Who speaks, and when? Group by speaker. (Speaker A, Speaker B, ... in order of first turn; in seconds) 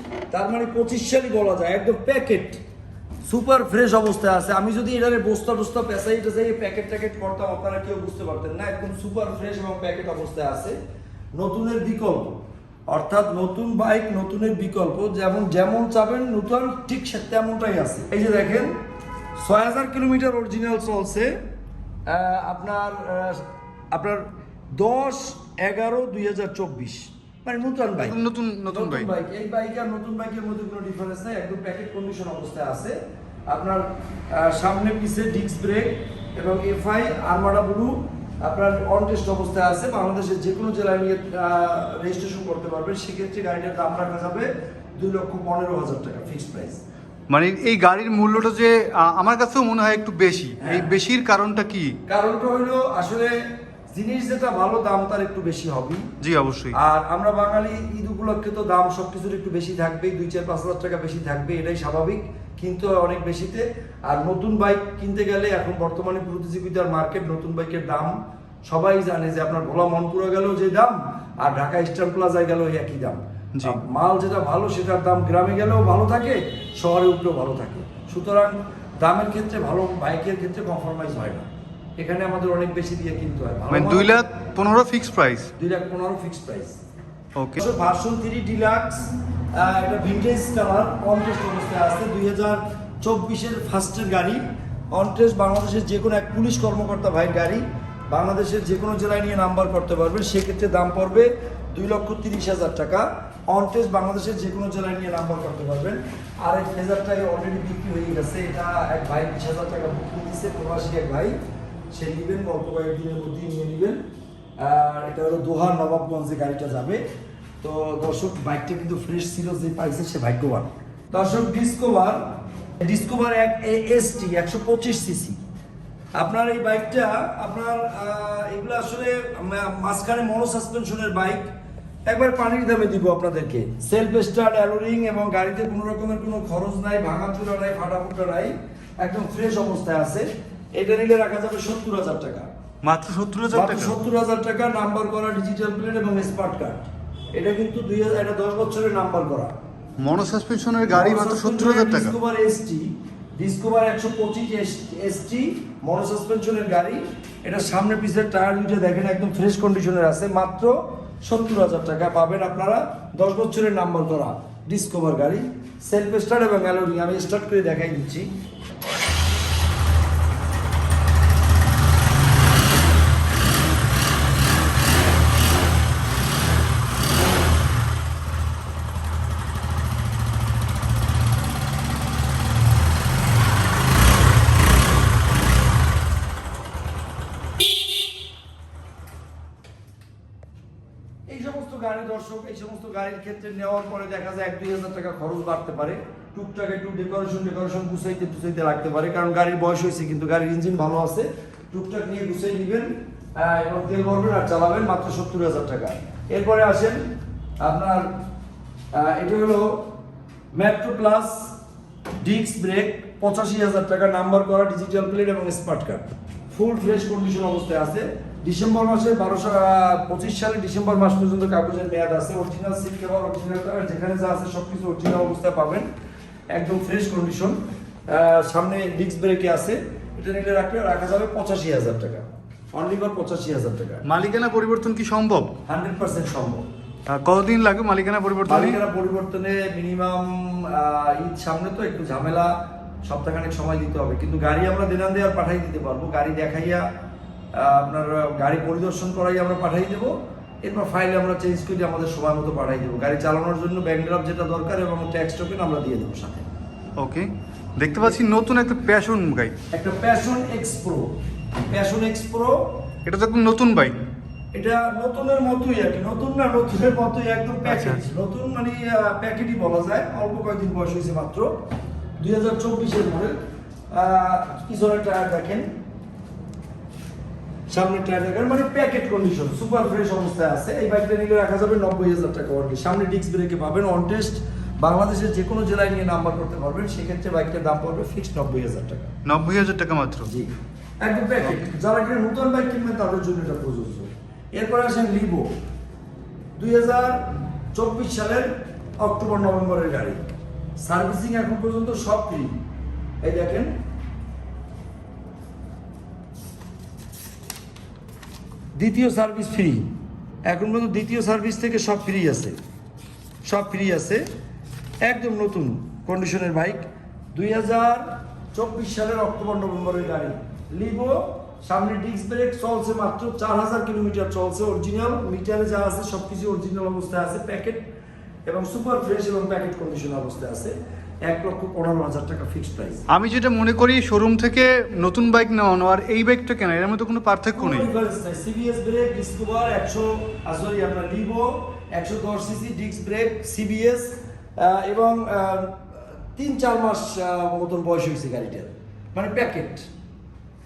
Speaker A: 0.3-2.6, 3.2-10.8, 11.3-18.7, 19.4-21.3, 22.1-33.0, 33.5-46.8, 50.6-50.9, 52.1-53.3, 53.9-56.0, 56.7-68.1, 68.7-81.5, 82.0-84.3, 85.6-86.8, 87.5-111.3, 111.9-114.0, 114.6-117.0, 117.6-125.4, 126.2-131.5, 132.1-142.5, 143.5-149.6, 150.9-168.3, 191.3-208.2, 208.9-209.9, 210.5-211.6, 212.2-225.9, 226.5-234.0, 235.7-236.7, 238.5-242.5, 243.1-246.8, 247.6-250.1, 250.6-256.5, 259.7-261.2, 261.7-262.8, 264.5-271.5, 272.2-273.4, 273.9-275.7, 277.7-289.1, 290.2-290.5, 291.0-295.5, 296.6-300.2, 300.8-302.6, 303.2-303.7, 308.8-309.9, 310.5-312.6, 313.4-314.2, 315.0-327.9, 328.5-333.1, 337.5-349.9
Speaker B: 28.0-29.1, 47.3-51.9, 56.2-56.8, 83.7-85.5, 87.3-87.6, 142.8-143.9, 150.0-152.2, 234.0-235.5, 237.1-238.8, 257.0-259.5, 263.1-264.0, 267.6-268.0, 289.2-290.3, 333.1-337.9